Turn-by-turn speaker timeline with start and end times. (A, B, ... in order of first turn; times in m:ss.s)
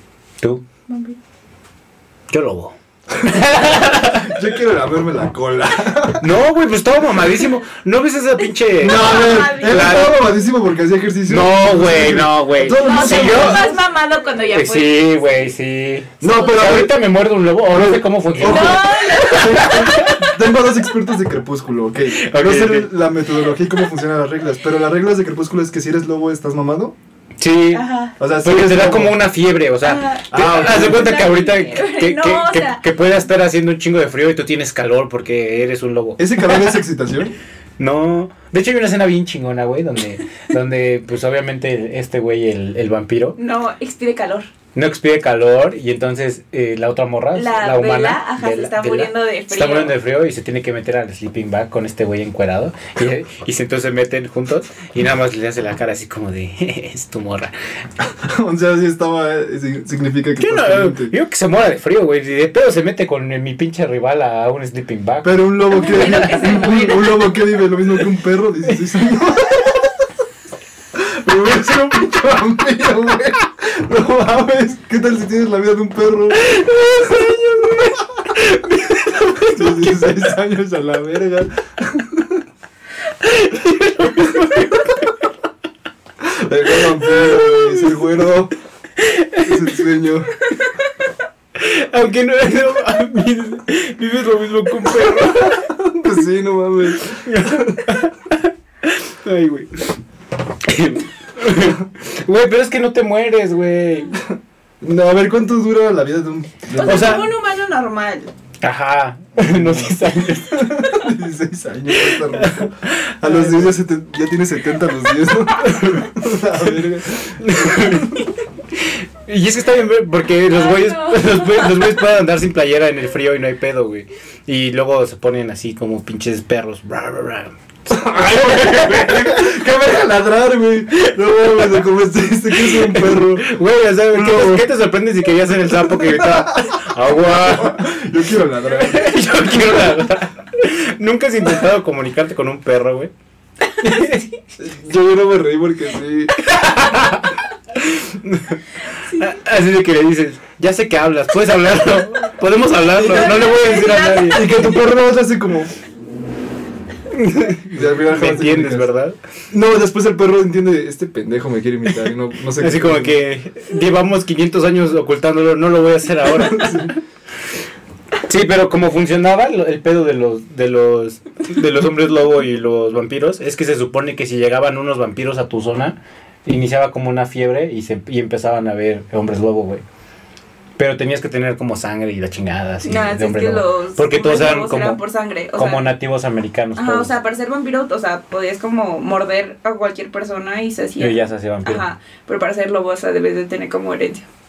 0:00.9-0:01.2 A
0:02.3-0:04.4 B
0:03.1-0:06.4 C
0:06.2-0:10.2 B
0:08.8-0:13.8 C
0:08.8-0:10.1 A
0:11.3-0:13.7 B
0:12.8-0:15.0 A
0:14.5-0:20.4 B
0:16.2-0:17.0 C
0:17.7-0:27.0 C
0:18.4-0:20.2 A
0:22.1-0:23.0 B
0:27.4-0:27.9 B
0:27.7-0:28.1 A
0:28.2-0:29.2 C
0:28.4-0:36.8 B
0:29.8-0:32.8 A
0:30.3-0:31.2 C
0:36.2-0:37.4 C
0:37.8-0:43.4 B
0:43.4-0:44.5 A
0:44.8-0:57.5 B
0:47.3-0:49.9 A
0:58.0-1:01.1 C
1:00.4-1:06.6 B
1:05.2-1:10.1 C
1:05.7-1:07.4 A
1:10.9-1:18.3 C
1:16.4-1:20.2 B
1:19.4-1:22.4 C
1:23.2-1:25.1 B
1:26.2-1:28.5 C
1:26.8-1:27.9 B
1:29.0-1:29.7 B
1:29.4-1:30.3 C
1:31.6-1:35.7 B
1:35.2-1:38.0 C
1:37.1-1:39.9 B
1:40.6-1:44.2 B
1:44.2-1:47.3 C
1:46.8-1:48.3 A
1:46.8-1:47.3 B
1:48.6-1:51.0 B
1:49.4-1:58.2 C
1:51.9-1:53.8 B
1:57.4-2:09.7 B
2:00.7-2:01.6 A
2:07.9-2:14.7 C
2:10.9-2:11.8 B
2:12.5-2:17.9 B
2:15.8-2:20.0 C
2:18.6-2:23.1 B
2:23.8-2:24.3 B
2:24.6-2:26.6 C
2:26.4-2:34.8 B
2:32.9-2:33.5 C
2:33.1-2:34.6 A
2:34.3-2:35.7 C
2:37.1-2:39.2 B
2:37.7-2:38.9 C
2:39.5-2:43.2 C
2:42.6-2:47.0 B
2:46.3-2:47.0 C
2:48.3-2:59.8 B
3:00.8-3:05.0 B
3:02.8-3:05.9 A
3:05.6-3:07.1 B
3:06.8-3:14.3 A
3:11.0-3:11.8 B